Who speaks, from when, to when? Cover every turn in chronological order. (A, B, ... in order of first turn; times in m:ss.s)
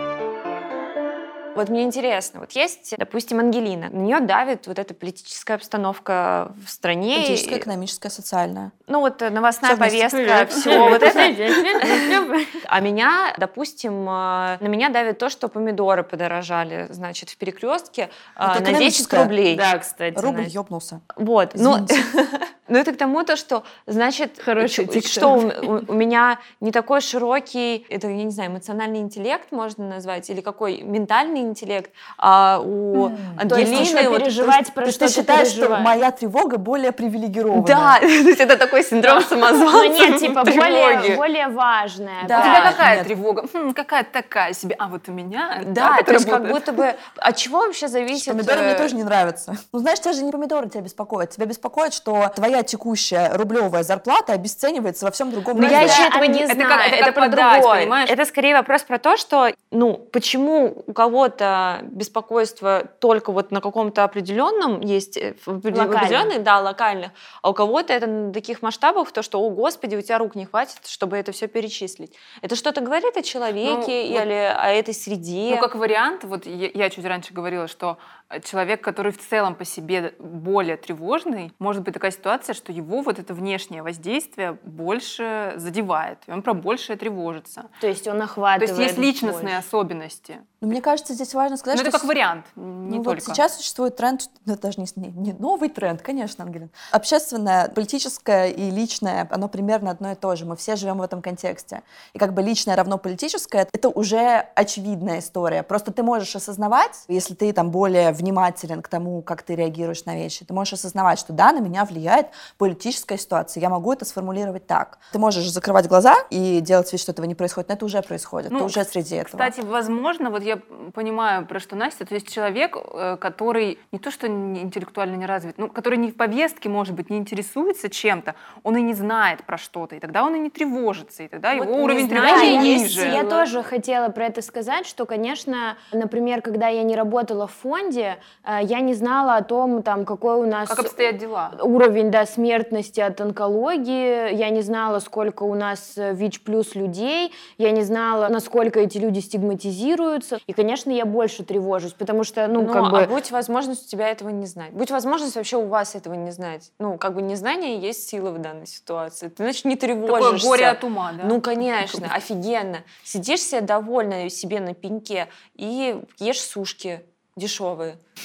0:01.5-0:07.6 A
0:07.1-0:08.7 B
0:08.9-0:12.1 A
0:09.6-0:11.0 B
0:10.5-0:12.6 C
0:12.6-0:19.7 A
0:18.4-0:19.3 B
0:19.5-0:20.4 C
0:20.1-0:21.0 B
0:21.1-0:34.4 A
0:21.5-0:22.0 B
0:24.4-0:25.5 C
0:33.5-0:35.9 C
0:33.5-0:38.0 B
0:37.5-0:41.2 A
0:39.7-0:42.8 C
0:42.2-0:43.1 B
0:42.3-0:46.8 D
0:45.6-0:48.9 A
0:48.1-0:56.0 B
0:55.5-0:57.1 C
0:55.5-1:15.7 A
0:55.6-0:58.1 D
1:05.7-1:06.3 C
1:13.6-1:14.3 D
1:15.5-1:27.7 D
1:27.8-1:29.6 C
1:28.6-1:30.4 D
1:30.6-1:32.1 B
1:31.7-1:33.4 D
1:32.9-1:59.5 B
1:58.5-2:13.4 D
2:11.5-2:33.1 C
2:12.0-2:13.4 A
2:20.7-2:21.6 D
2:32.6-2:48.0 A
2:40.0-2:42.1 D